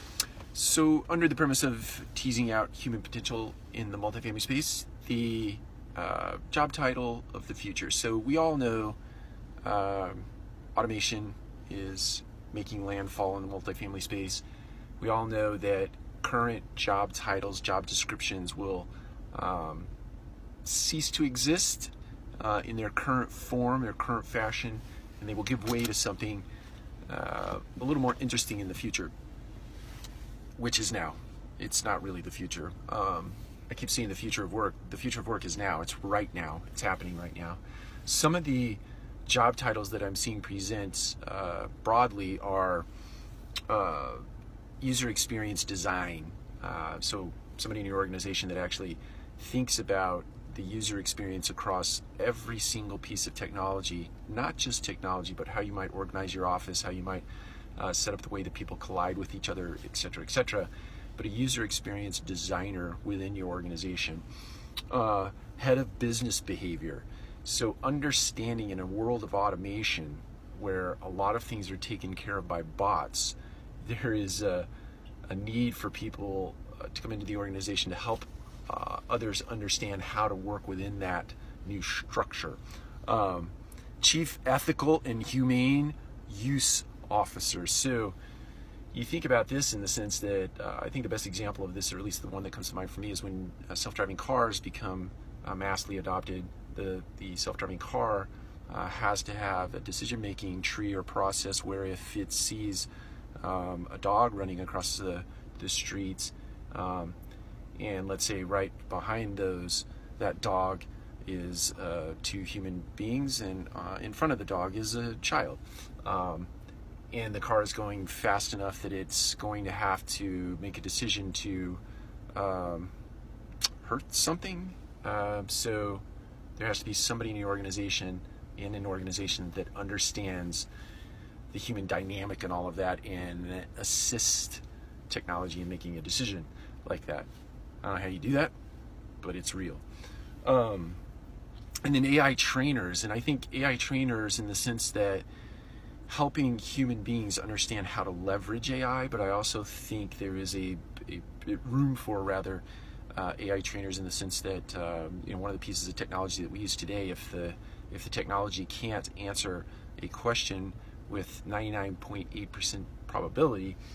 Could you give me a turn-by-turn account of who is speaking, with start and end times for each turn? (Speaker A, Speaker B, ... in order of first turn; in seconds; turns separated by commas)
Speaker A: 0.5-9.0, Speaker A: 9.6-14.4, Speaker A: 15.0-19.9, Speaker A: 20.6-26.5, Speaker A: 27.1-29.1, Speaker A: 30.6-42.9, Speaker A: 43.7-44.2, Speaker A: 44.8-57.2, Speaker A: 57.8-64.2, Speaker A: 64.9-74.7, Speaker A: 75.3-88.2, Speaker A: 88.9-102.9, Speaker A: 103.4-107.2, Speaker A: 107.8-116.5, Speaker A: 117.1-121.8, Speaker A: 122.3-122.9, Speaker A: 123.8-126.0, Speaker A: 126.6-130.7, Speaker A: 131.5-137.3, Speaker A: 137.8-138.5, Speaker A: 139.2-139.8, Speaker A: 140.4-141.0, Speaker A: 141.8-145.3, Speaker A: 146.1-163.8